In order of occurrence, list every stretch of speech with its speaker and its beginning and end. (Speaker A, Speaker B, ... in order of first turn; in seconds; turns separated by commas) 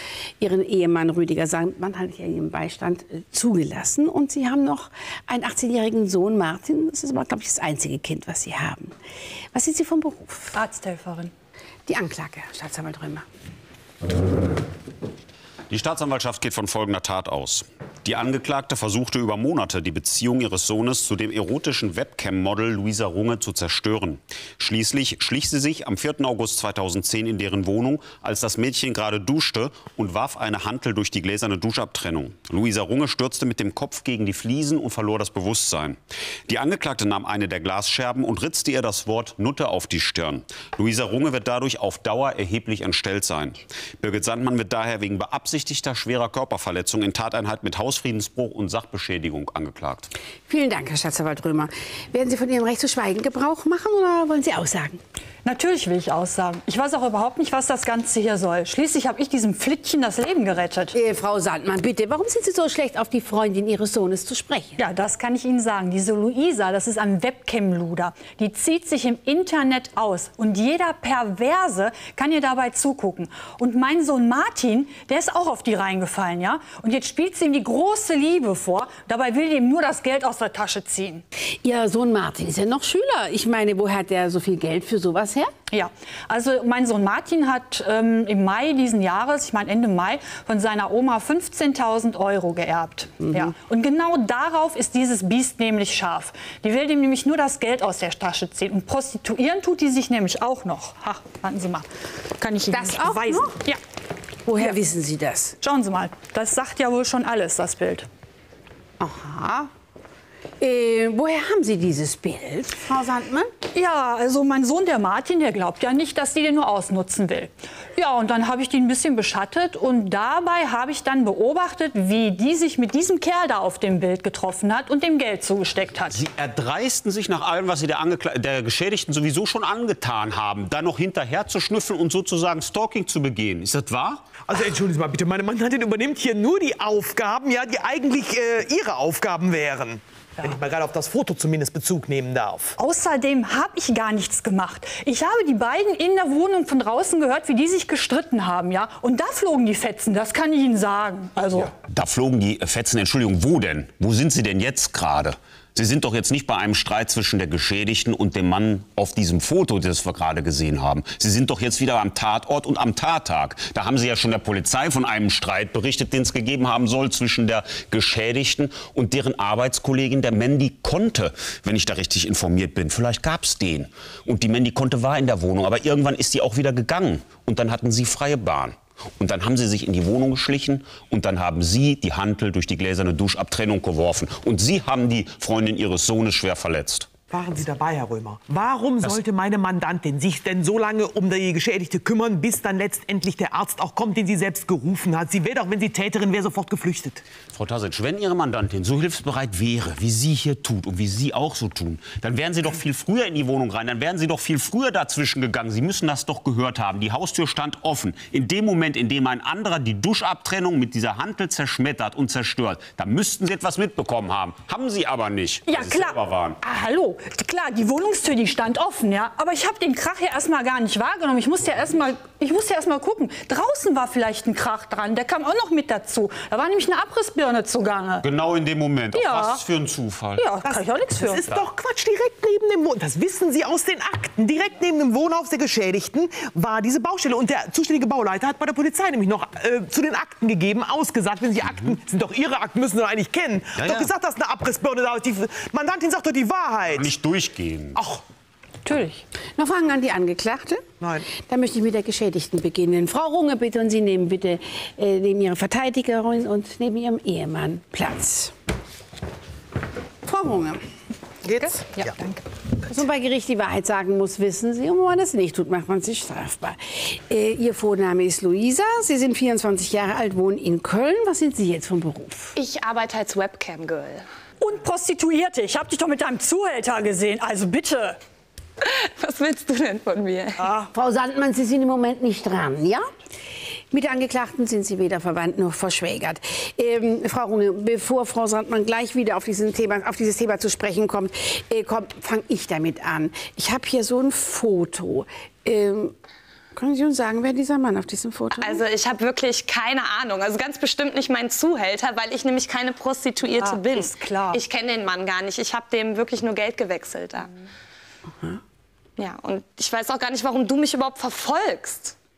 Speaker A: 0.4-8.9, Speaker A: 9.5-10.5, Speaker B: 10.5-11.3, Speaker A: 11.9-13.2, Speaker C: 15.7-36.0, Speaker C: 36.5-50.1, Speaker A: 50.5-55.0, Speaker B: 55.4-60.9, Speaker A: 60.9-64.8, Speaker B: 64.8-81.2, Speaker A: 81.6-85.5, Speaker B: 85.7-101.9, Speaker B: 102.4-103.8, Speaker A: 102.7-103.5, Speaker A: 104.5-105.5, Speaker B: 105.6-108.0, Speaker A: 109.0-109.7, Speaker A: 110.6-113.5, Speaker B: 113.7-126.2, Speaker C: 126.1-134.2, Speaker D: 134.4-142.7, Speaker B: 142.8-151.7, Speaker C: 151.9-187.1, Speaker D: 187.3-197.2, Speaker C: 197.5-216.6, Speaker B: 215.7-228.3, Speaker C: 228.2-230.5, Speaker B: 229.1-229.6, Speaker B: 230.3-231.4, Speaker D: 230.6-247.2, Speaker C: 243.8-244.1, Speaker C: 246.9-248.0, Speaker D: 247.9-248.2, Speaker B: 248.8-249.2, Speaker A: 249.6-250.8, Speaker D: 251.0-251.2, Speaker A: 251.3-258.5, Speaker A: 260.2-260.8, Speaker D: 261.5-262.1, Speaker B: 261.6-262.4, Speaker A: 262.9-272.6, Speaker E: 272.6-274.2, Speaker B: 274.6-278.2, Speaker E: 278.8-280.7, Speaker B: 280.6-280.9, Speaker A: 280.9-283.0, Speaker A: 283.9-296.1, Speaker A: 296.7-298.8, Speaker E: 298.6-307.5, Speaker B: 303.6-304.6, Speaker E: 309.2-312.1